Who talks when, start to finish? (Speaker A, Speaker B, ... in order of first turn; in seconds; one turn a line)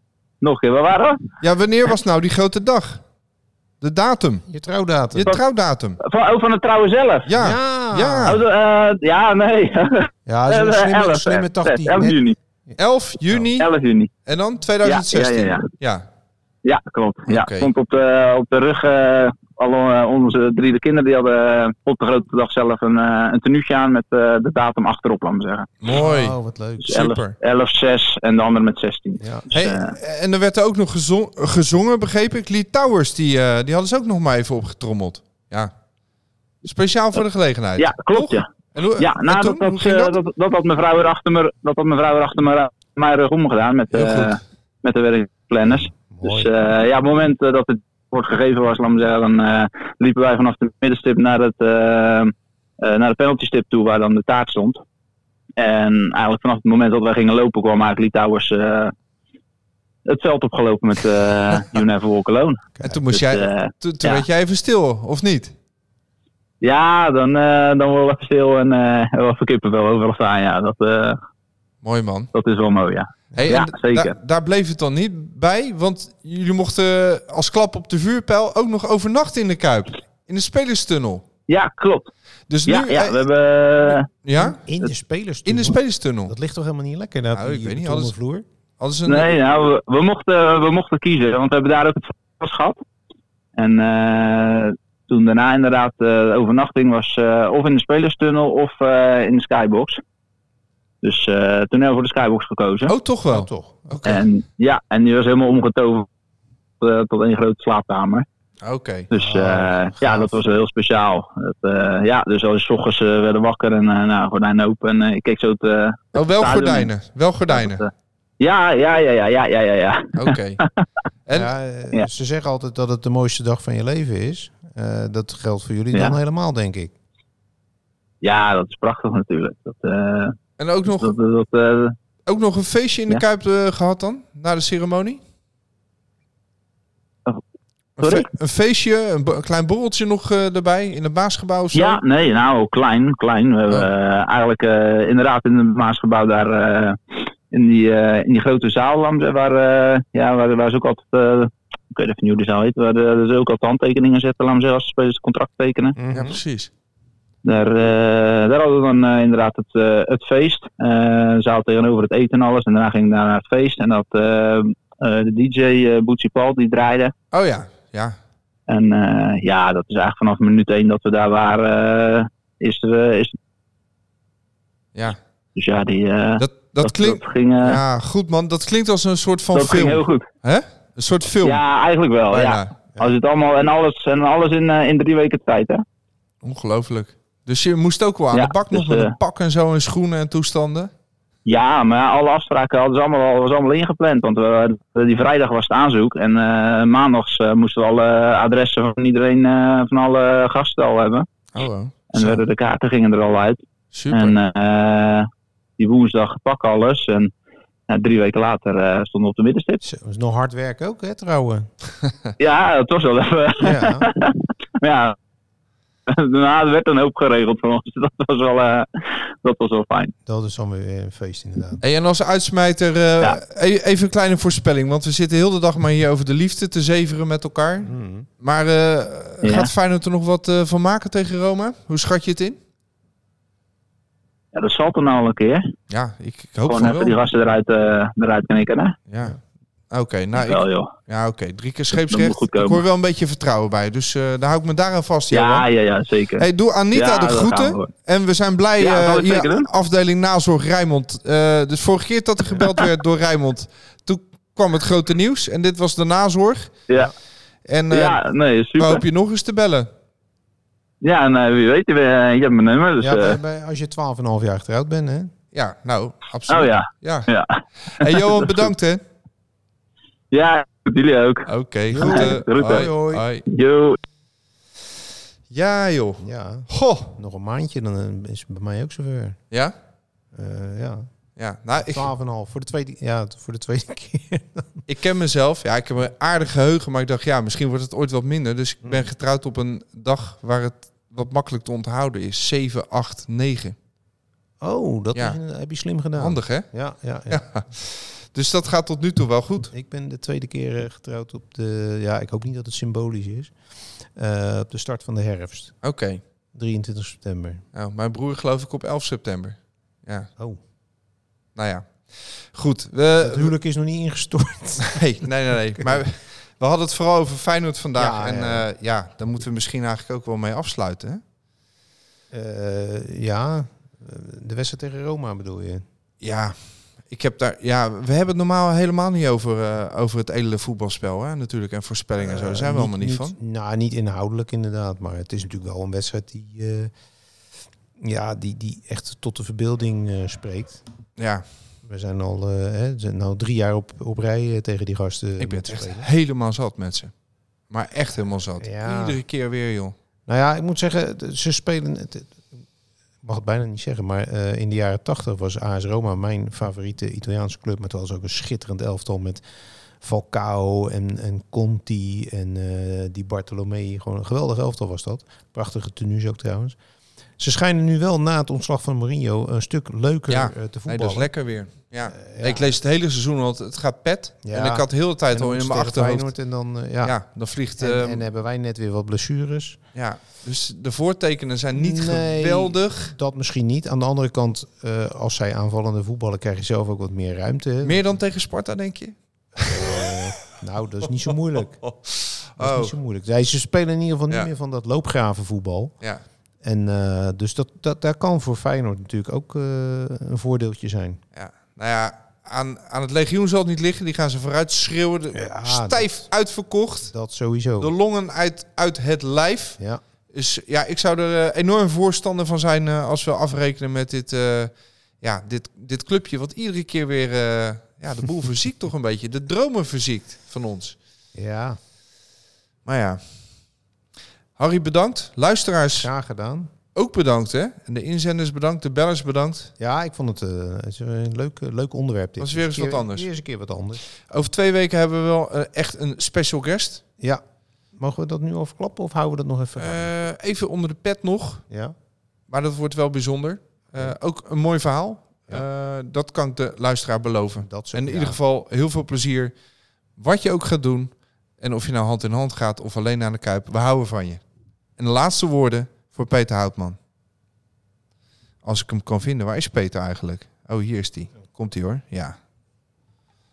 Speaker A: 0.4-1.2
Speaker B: 1.4-3.0
Speaker B: 3.8-4.4
Speaker C: 4.5-5.4
Speaker B: 5.1-6.0
Speaker A: 6.0-7.3
Speaker B: 7.2-8.4
Speaker C: 7.3-8.4
Speaker A: 8.2-12.4
Speaker C: 10.2-12.8
Speaker B: 12.8-13.7
Speaker A: 13.6-14.1
Speaker B: 14.2-16.1
Speaker A: 14.8-15.7
Speaker A: 16.6-25.7
Speaker B: 17.3-17.7
Speaker B: 25.8-27.4
Speaker C: 25.9-27.0
Speaker A: 26.8-29.9
Speaker C: 29.2-29.5
Speaker B: 29.5-35.7
Speaker B: 36.6-40.2
Speaker A: 37.8-38.5
Speaker A: 39.0-54.8
Speaker B: 43.9-44.4
Speaker C: 45.6-46.5
Speaker A: 55.6-58.9
Speaker A: 60.0-64.2
Speaker C: 62.8-63.0
Speaker B: 62.8-65.5
Speaker A: 66.6-71.2
Speaker B: 71.8-72.3
Speaker A: 72.3-74.1
Speaker B: 73.4-81.3
Speaker A: 81.5-82.1
Speaker B: 82.5-83.2
Speaker A: 82.7-84.1
Speaker B: 84.2-84.6
Speaker C: 84.3-88.5
Speaker B: 85.4-86.3
Speaker B: 87.3-88.1
Speaker B: 88.8-89.3
Speaker A: 89.0-92.8
Speaker A: 93.5-100.0
Speaker A: 101.0-102.9
Speaker B: 102.9-104.2
Speaker C: 103.3-104.0
Speaker A: 104.0-106.1
Speaker A: 106.8-108.2
Speaker B: 108.6-109.1
Speaker A: 109.1-116.9
Speaker C: 109.1-110.4
Speaker B: 116.1-117.8
Speaker A: 117.5-120.7
Speaker B: 120.1-120.6
Speaker B: 121.2-121.5
Speaker C: 121.3-126.9
Speaker A: 125.9-126.2
Speaker A: 128.2-130.4
Speaker B: 130.6-131.1
Speaker A: 131.0-131.9
Speaker B: 132.2-135.2
Speaker B: 138.0-142.0
Speaker A: 138.0-138.3
Speaker A: 141.7-156.0
Speaker C: 156.0-156.4
Speaker B: 156.1-156.7
Speaker A: 157.4-167.1
Speaker B: 167.3-168.2
Speaker A: 168.7-173.3
Speaker A: 175.5-177.8
Speaker B: 176.4-181.6
Speaker A: 179.5-180.2
Speaker A: 181.4-185.8
Speaker B: 182.3-182.7
Speaker B: 186.4-190.9
Speaker A: 188.3-189.1
Speaker A: 191.4-201.2
Speaker B: 201.5-202.4
Speaker A: 202.1-207.3
Speaker B: 203.9-204.4
Speaker A: 207.9-209.8
Speaker C: 209.8-211.7
Speaker A: 212.4-215.2
Speaker C: 213.6-214.1
Speaker A: 216.1-218.9
Speaker A: 219.4-220.1
Speaker C: 220.2-221.8
Speaker B: 221.8-232.6
Speaker C: 227.8-228.3
Speaker A: 229.4-229.7
Speaker A: 234.5-235.7
Speaker B: 235.9-237.2
Speaker A: 236.6-238.9
Speaker B: 239.1-239.4
Speaker B: 239.9-245.7
Speaker A: 240.3-240.9
Speaker A: 241.9-242.8
Speaker A: 245.3-247.9
Speaker B: 246.4-256.8
Speaker A: 248.8-249.7
Speaker B: 257.7-258.2
Speaker A: 257.9-259.0
Speaker B: 258.8-259.9
Speaker A: 261.0-263.4
Speaker C: 263.0-265.3
Speaker B: 265.5-267.3
Speaker A: 266.5-267.5
Speaker B: 267.8-269.0
Speaker A: 268.0-268.7
Speaker A: 270.3-271.5
Speaker B: 271.5-273.4
Speaker C: 271.9-273.2
Speaker A: 272.0-272.9
Speaker A: 273.5-274.0
Speaker B: 275.5-277.1
Speaker C: 276.2-279.4
Speaker C: 280.3-281.1
Speaker B: 281.4-282.1
Speaker C: 281.8-284.8
Speaker B: 284.9-293.8
Speaker C: 288.8-289.1
Speaker C: 294.6-297.5
Speaker B: 296.2-296.7
Speaker B: 297.3-299.7
Speaker C: 299.7-303.5
Speaker C: 304.1-305.8
Speaker B: 305.8-306.2
Speaker C: 306.5-307.6
Speaker B: 307.7-310.3
Speaker B: 311.6-313.5
Speaker C: 313.2-316.0
Speaker B: 314.8-321.2
Speaker C: 317.9-318.7
Speaker C: 322.3-325.8
Speaker B: 326.2-333.4
Speaker C: 332.2-336.9
Speaker C: 338.0-340.8
Speaker B: 341.2-341.4
Speaker C: 341.8-346.1
Speaker B: 345.4-347.1
Speaker B: 347.7-349.9
Speaker C: 348.6-349.2
Speaker C: 350.3-352.5
Speaker C: 353.2-359.4
Speaker C: 360.0-366.8
Speaker C: 367.4-371.5
Speaker B: 370.3-376.3
Speaker C: 372.1-372.7
Speaker C: 374.4-377.2
Speaker B: 377.0-378.2
Speaker C: 377.8-379.8
Speaker B: 379.9-383.1
Speaker C: 381.7-388.1
Speaker B: 387.8-390.2
Speaker C: 389.6-392.0
Speaker B: 391.8-392.9
Speaker C: 392.6-395.9
Speaker C: 396.6-401.2
Speaker B: 401.3-407.1
Speaker C: 405.3-406.3
Speaker C: 407.0-407.9
Speaker B: 407.8-409.8
Speaker B: 410.3-420.9
Speaker C: 421.3-421.8
Speaker B: 422.8-423.2
Speaker B: 424.6-426.1
Speaker C: 426.0-426.7
Speaker B: 426.9-429.7
Speaker C: 429.8-434.0
Speaker B: 432.4-433.3
Speaker B: 434.3-437.0
Speaker C: 437.9-440.1
Speaker B: 439.8-441.6
Speaker C: 441.7-441.9
Speaker B: 442.5-449.5
Speaker C: 447.6-448.4
Speaker B: 450.1-454.4
Speaker B: 455.0-457.0
Speaker B: 458.6-462.3